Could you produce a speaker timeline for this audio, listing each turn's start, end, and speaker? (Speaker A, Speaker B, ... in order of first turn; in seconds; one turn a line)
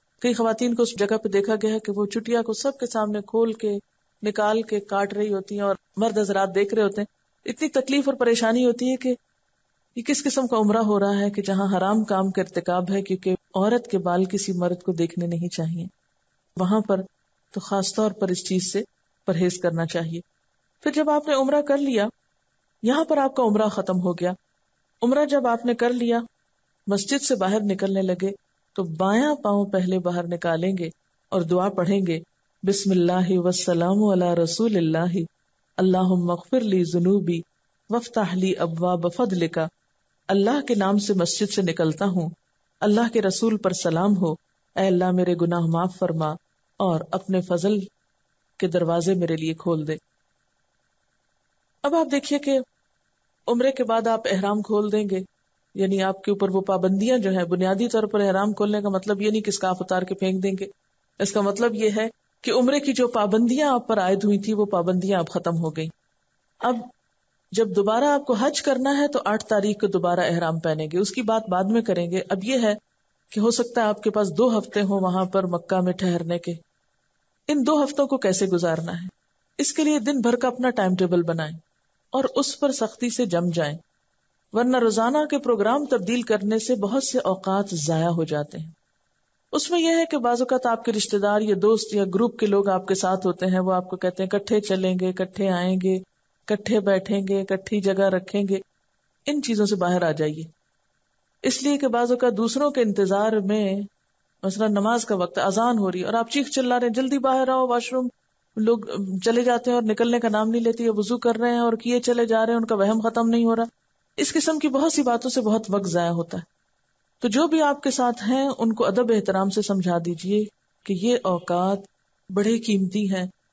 Speaker A: 0.2-9.2
Speaker A: 10.0-15.9
Speaker A: 16.6-20.2
Speaker A: 20.8-22.1
Speaker A: 22.8-24.4
Speaker A: 25.0-26.2
Speaker A: 26.9-39.7
Speaker A: 40.3-47.9
Speaker A: 48.6-50.0
Speaker A: 51.8-52.6
Speaker A: 53.5-55.2
Speaker A: 55.8-65.9
Speaker A: 66.6-66.9
Speaker A: 67.5-72.8
Speaker A: 73.3-76.6
Speaker A: 77.5-81.6
Speaker A: 82.1-83.8
Speaker A: 84.5-88.7
Speaker A: 89.5-98.6
Speaker A: 99.3-100.5
Speaker A: 101.4-103.9
Speaker A: 104.4-116.5
Speaker A: 117.2-123.3